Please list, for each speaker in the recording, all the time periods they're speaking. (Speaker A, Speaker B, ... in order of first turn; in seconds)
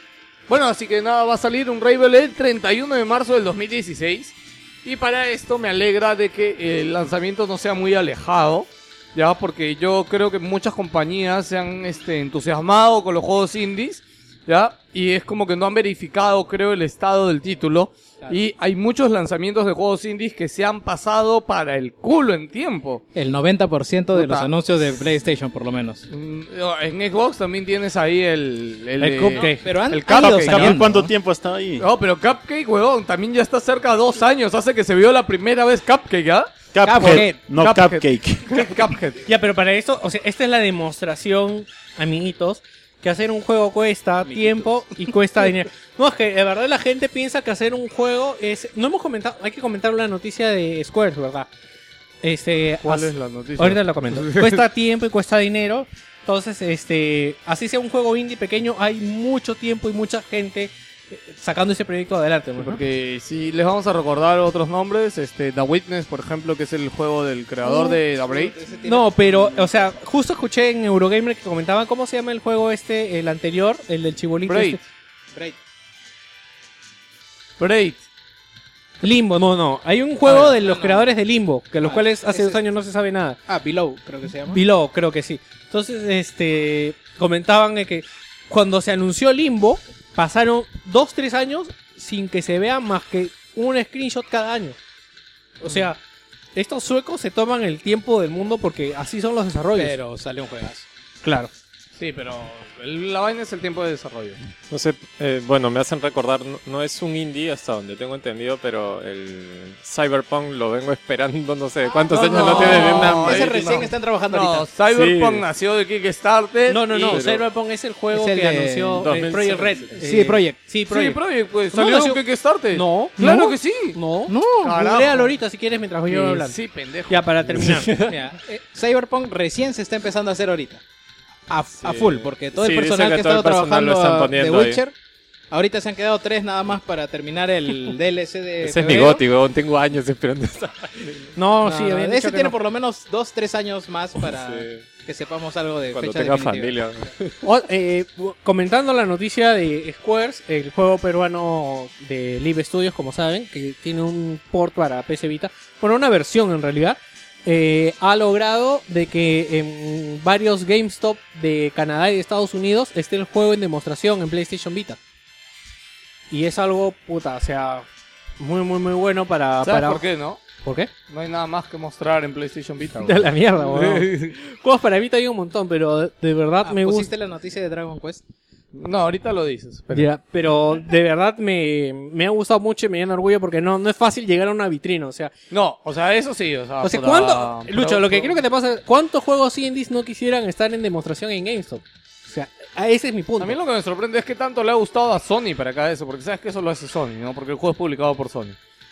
Speaker A: 0.5-23.0, 24.1-24.5, 26.1-30.8, 31.8-39.2, 52.8-54.6, 62.6-68.5, 74.5-74.8, 77.6-78.0, 101.9-104.4, 112.1-117.2, 120.9-124.0, 124.6-125.3, 126.1-127.3, 169.6-170.4, 171.1-174.3, 178.7-180.1, 185.5-188.4, 193.4-198.6
Speaker B: 23.1-26.0, 29.3-31.1, 36.8-37.4, 44.2-45.0, 67.9-69.7, 80.2-81.1, 81.8-82.6, 83.5-84.6, 99.7-100.9, 111.8-114.7, 118.1-119.4, 119.9-120.6, 124.3-124.7, 128.0-130.8, 131.5-134.9, 135.5-139.2, 141.6-146.8, 176.6-178.2
Speaker C: 29.0-29.6, 39.2-51.5, 52.2-62.8, 67.7-67.9, 68.8-74.8, 79.0-83.4, 84.5-94.8, 95.6-96.0, 96.5-100.0, 101.2-101.5, 116.7-121.2, 121.7-126.5, 127.1-127.9, 141.3-142.6, 147.4-165.0, 166.3-167.8, 168.4-170.0, 170.6-170.9, 173.0-177.1, 179.9-185.3, 186.8-193.6
Speaker D: 30.2-31.8, 36.7-38.8
Speaker E: 104.7-113.8, 114.9-115.5, 117.1-117.4, 119.0-120.1, 127.5-128.1, 131.8-134.8, 138.6-141.3, 144.2-144.8, 145.9-147.4